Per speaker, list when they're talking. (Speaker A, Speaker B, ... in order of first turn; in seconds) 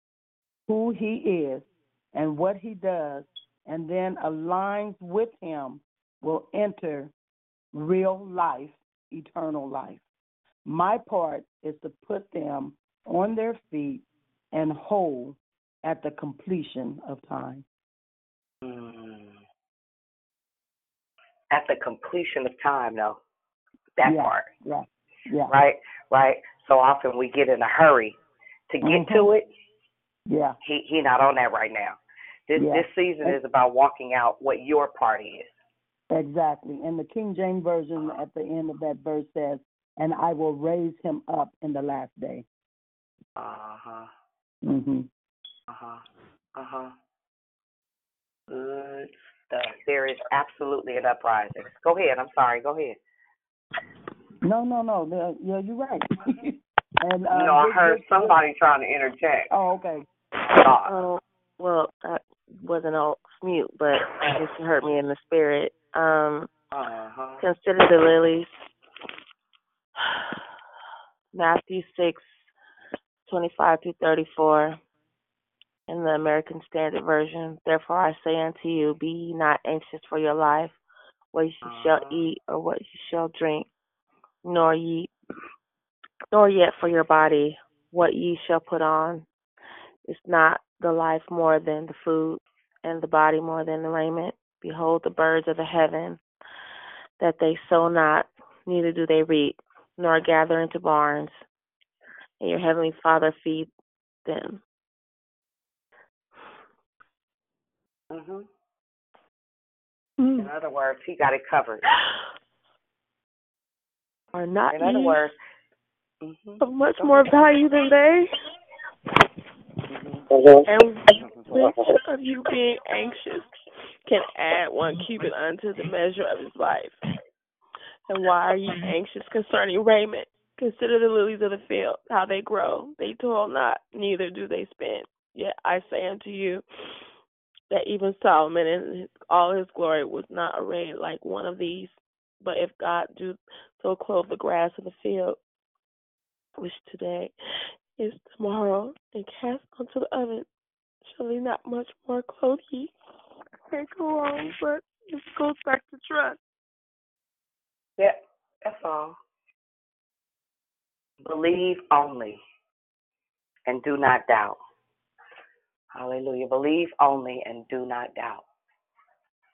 Speaker A: 0.7-7.1, 7.7-10.0, 10.7-17.6, 24.0-25.5, 28.8-29.3, 30.3-30.6, 32.5-33.4, 36.1-42.5, 44.6-45.1, 54.4-58.3, 59.5-60.0
Speaker B: 18.6-19.4, 21.5-23.2, 24.0-24.5, 25.5-28.1, 28.7-29.5, 30.6-32.0, 32.5-35.5, 43.4-44.1, 45.7-46.0, 46.5-46.9, 48.5-53.0, 57.3-59.5, 60.4-60.9, 64.0-64.4, 66.7-67.4, 81.6-82.2, 108.1-108.5, 110.4-111.8, 114.7-115.4, 116.2-117.3, 119.9-120.7, 121.2-121.5, 158.0-159.2, 161.2-162.4, 163.7-164.6, 165.9-168.4
Speaker C: 60.8-66.5, 67.4-68.5, 71.3-72.5, 73.2-74.8, 75.9-80.8, 81.3-83.7, 84.4-85.1, 86.3-89.2, 90.0-96.2, 97.2-101.4, 102.4-103.7, 104.2-104.6, 110.2-110.5, 114.3-115.2, 116.6-118.3, 120.7-123.5, 124.0-127.0, 128.1-136.6, 137.7-145.4, 146.6-147.3, 148.0-150.5, 151.0-152.9, 153.7-156.4